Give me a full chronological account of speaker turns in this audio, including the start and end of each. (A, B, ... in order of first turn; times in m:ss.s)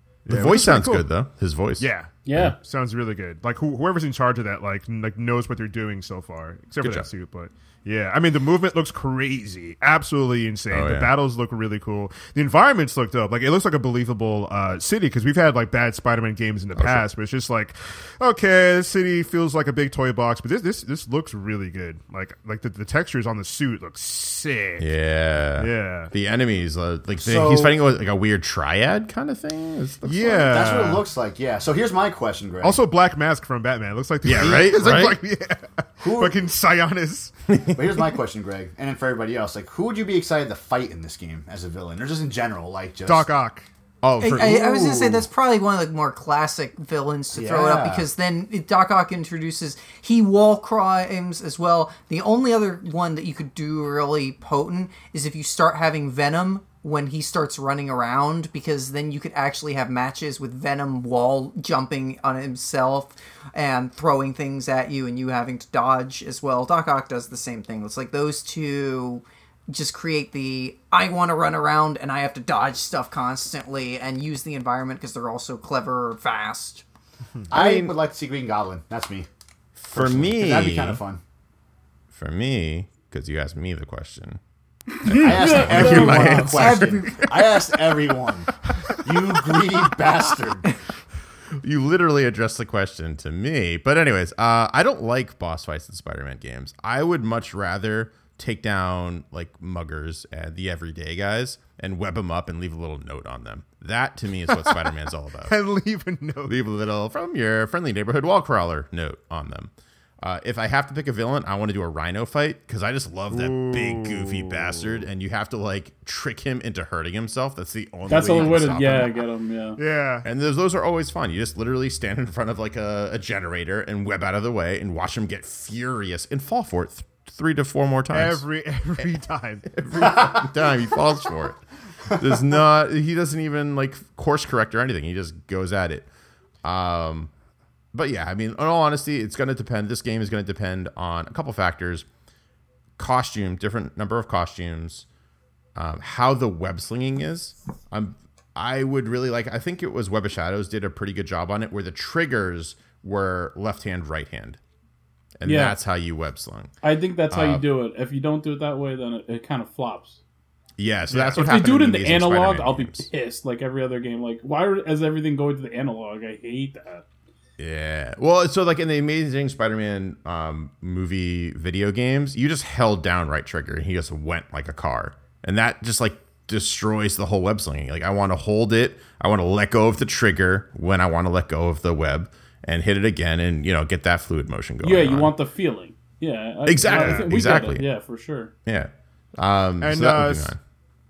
0:00.3-0:01.1 A
0:00.3-0:02.6 B
0:01.8-0:24.9 A
0:02.2-0:02.6 C
0:06.8-0:07.1 B
0:10.7-0:11.1 B
0:16.8-0:17.0 B
0:24.8-0:30.9 B
0:25.6-0:26.1 A
0:27.2-0:27.8 D
0:30.0-0:31.0 A
0:30.4-0:32.8 D
0:32.6-0:37.3 A
0:34.2-0:35.2 B
0:36.0-0:36.4 D
0:37.5-0:38.0 B
0:37.7-0:43.3 D
0:43.1-0:43.7 A
0:44.0-0:45.3 B
0:44.2-1:16.8 E
0:47.3-0:48.1 D
1:17.5-1:19.3 D
1:17.5-1:18.0 B
1:19.8-1:21.0 B
1:19.9-1:21.2 D
1:22.1-1:24.4 B
1:25.0-1:27.0 B
1:25.1-1:26.4 C
1:25.1-1:28.5 D
1:25.8-1:27.6 E
1:29.0-1:30.7 D
1:31.6-1:45.6 B
1:44.6-1:44.9 A
1:45.4-1:46.6 A
1:46.5-1:59.1 B
1:53.3-1:55.0 A
1:58.1-1:59.8 C
1:58.1-1:58.8 A
1:59.8-2:00.3 A
2:00.2-2:08.5 B
2:08.1-2:09.7 A
2:09.7-2:16.1 B
2:10.0-2:10.4 D
2:16.6-2:17.3 B
2:17.9-2:22.1 B
2:23.0-2:25.1 B
2:25.8-2:34.6 B
2:35.4-2:36.7 B
2:35.4-2:35.8 C
2:36.8-2:40.2 C
2:37.3-2:37.6 B
2:40.8-2:43.1 B
2:41.1-2:41.6 A
2:41.4-2:47.0 C
2:47.6-3:05.3 B
3:04.8-3:08.5 C
3:06.7-3:07.8 B
3:06.8-3:07.3 A
3:08.6-3:10.6 B
3:09.8-3:10.5 A